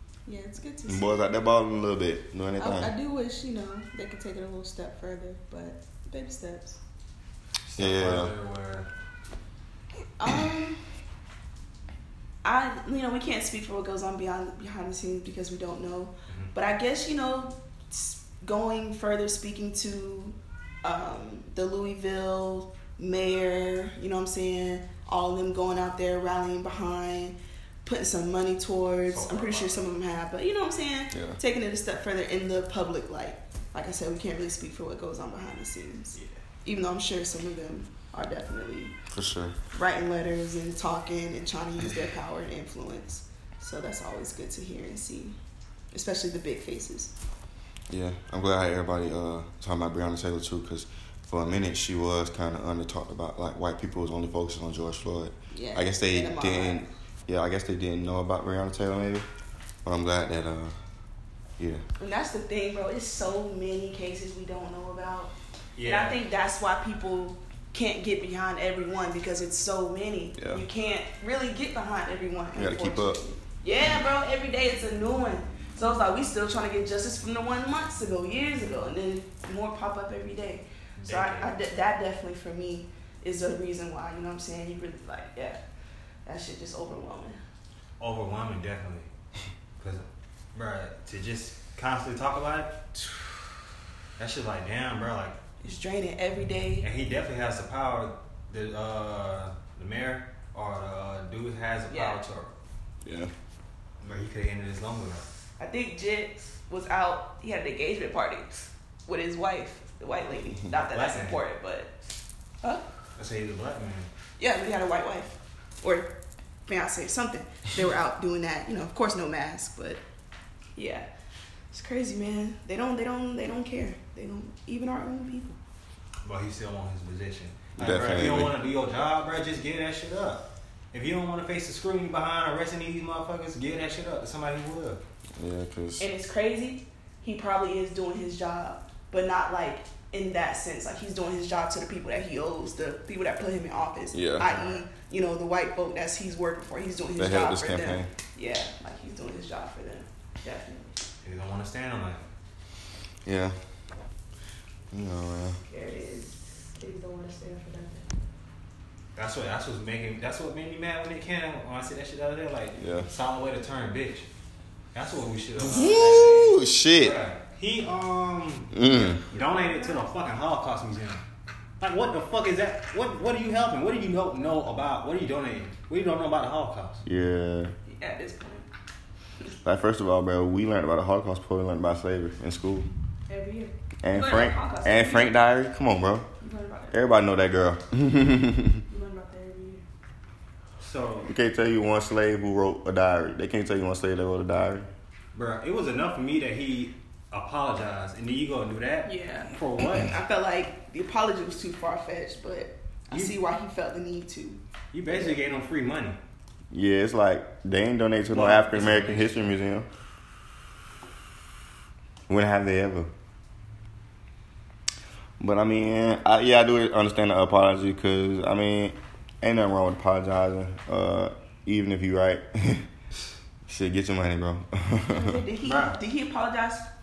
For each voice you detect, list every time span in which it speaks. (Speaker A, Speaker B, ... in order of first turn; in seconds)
Speaker A: 0.2-1.2, 2.6-6.8, 10.2-10.8, 12.4-38.9, 39.7-45.4, 45.9-47.1, 55.5-56.9, 62.0-65.3, 65.8-85.6, 86.2-87.4, 95.6-96.9, 101.9-102.2, 105.6-111.9, 114.4-116.1, 116.7-120.0, 120.8-121.1, 121.7-125.6, 136.0-151.0, 155.7-158.1, 168.9-170.1, 177.9-178.7, 183.3-185.4, 186.4-187.0, 188.9-189.8, 199.0-205.3, 225.1-226.8
Speaker B: 0.9-2.9, 7.8-8.3, 31.1-31.4, 39.1-39.6, 47.9-59.3, 59.8-60.8, 70.4-70.6, 72.5-73.2, 103.0-103.3, 127.8-128.5, 135.4-136.1, 144.1-144.5, 147.2-148.1, 153.2-153.6, 154.9-155.6, 162.8-163.1, 165.6-167.2, 168.7-169.2, 177.1-177.7, 179.6-182.9, 184.0-186.3, 186.9-188.8, 191.2-194.9, 206.7-209.9, 212.3-213.1, 215.4-222.9, 223.7-225.4
Speaker C: 7.6-8.9, 16.3-16.5, 29.1-29.9, 36.1-36.4, 65.8-66.2, 81.0-81.6, 88.0-89.1, 89.8-93.3, 94.2-95.4, 96.8-102.5, 104.0-105.2, 110.8-111.4, 113.2-114.1, 126.2-135.0, 144.4-144.8, 151.2-152.2, 159.1-164.3, 164.9-171.2, 171.8-177.0, 190.8-191.3, 195.3-200.1, 204.9-206.2, 208.3-209.5, 225.6-226.0